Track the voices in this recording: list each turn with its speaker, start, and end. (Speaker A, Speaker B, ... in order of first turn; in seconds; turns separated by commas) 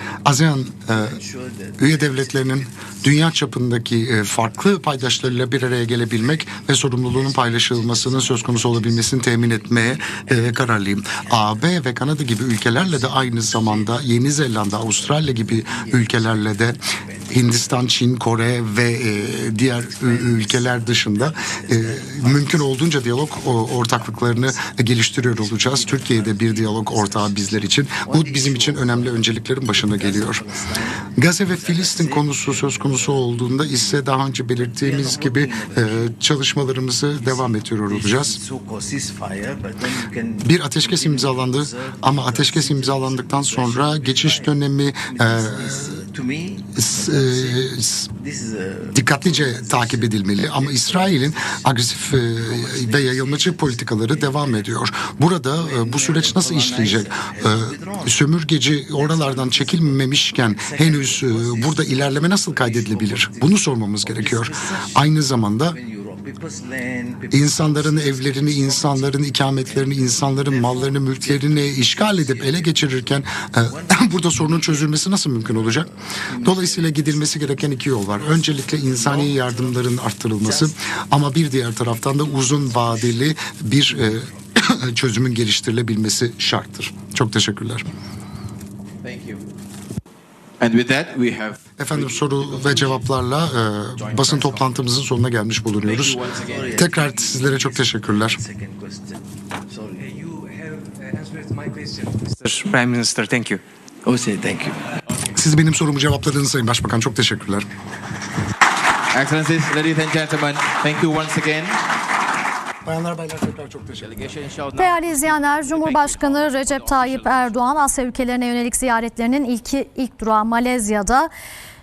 Speaker A: 0.2-1.2, Speaker B: 0.9-3.3, Speaker A: 1.8-16.8, Speaker B: 4.4-11.7, Speaker B: 12.4-17.9, Speaker A: 17.3-30.4, Speaker B: 19.6-27.4, Speaker B: 28.0-44.5, Speaker A: 31.0-38.4, Speaker A: 40.4-46.0, Speaker B: 45.1-51.7, Speaker A: 46.8-48.1, Speaker A: 48.9-65.8, Speaker B: 52.2-54.7, Speaker B: 55.6-58.2, Speaker B: 59.0-65.1, Speaker B: 65.6-80.7, Speaker A: 67.3-87.9, Speaker B: 82.0-83.3, Speaker B: 83.9-84.4, Speaker C: 89.0-89.4, Speaker C: 90.6-93.0, Speaker A: 91.8-98.4, Speaker C: 94.0-94.8, Speaker C: 95.8-96.9, Speaker B: 96.3-100.1, Speaker D: 100.0-103.6, Speaker B: 104.0-104.9, Speaker A: 105.3-107.7, Speaker C: 109.1-111.8, Speaker A: 112.8-114.2, Speaker C: 114.0-117.6, Speaker E: 114.8-121.3